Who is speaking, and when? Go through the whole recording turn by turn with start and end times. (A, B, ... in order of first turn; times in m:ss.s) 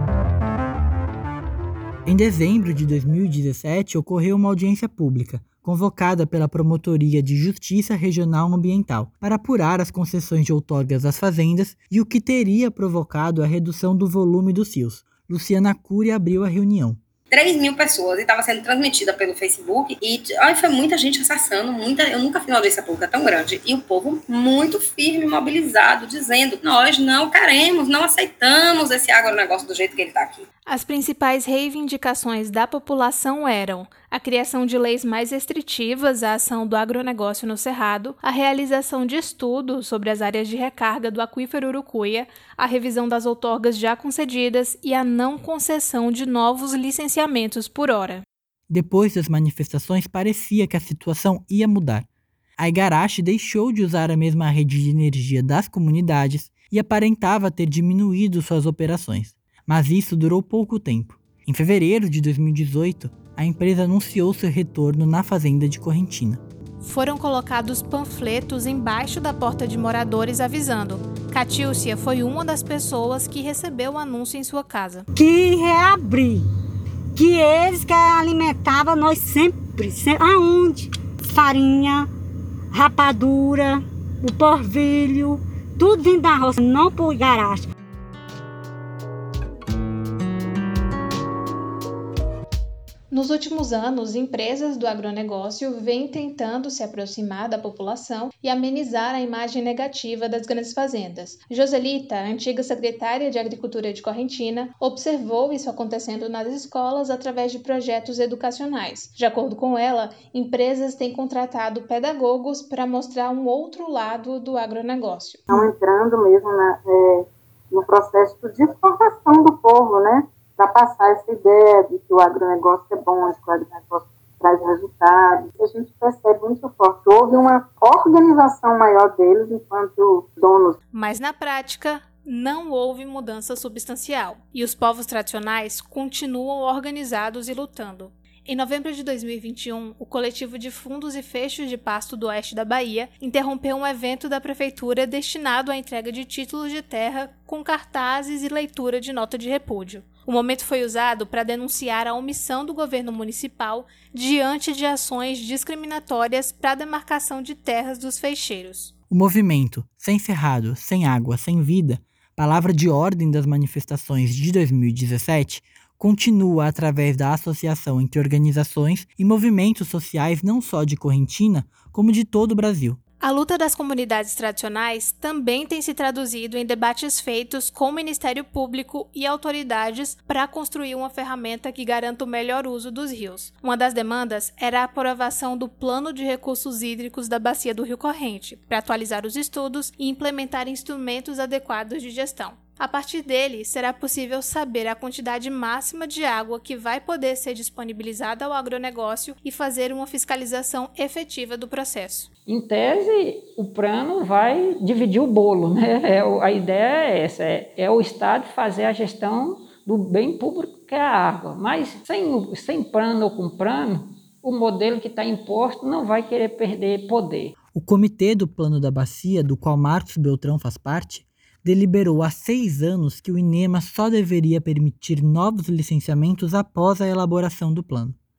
0:02.0-0:17.0 A
0:17.3-0:30.5 B
0:30.7-0:48.2 C
0:48.7-0:52.1 A
0:52.6-1:06.4 A
1:06.8-1:15.1 C
1:15.1-1:16.5 D
1:17.2-1:22.1 D
1:22.7-1:27.7 D
1:33.1-1:55.5 C
1:55.5-2:10.8 E
2:10.9-2:38.9 C
2:39.1-2:53.0 A
2:53.2-3:22.3 C
3:22.5-3:37.5 F
3:37.7-3:48.2 A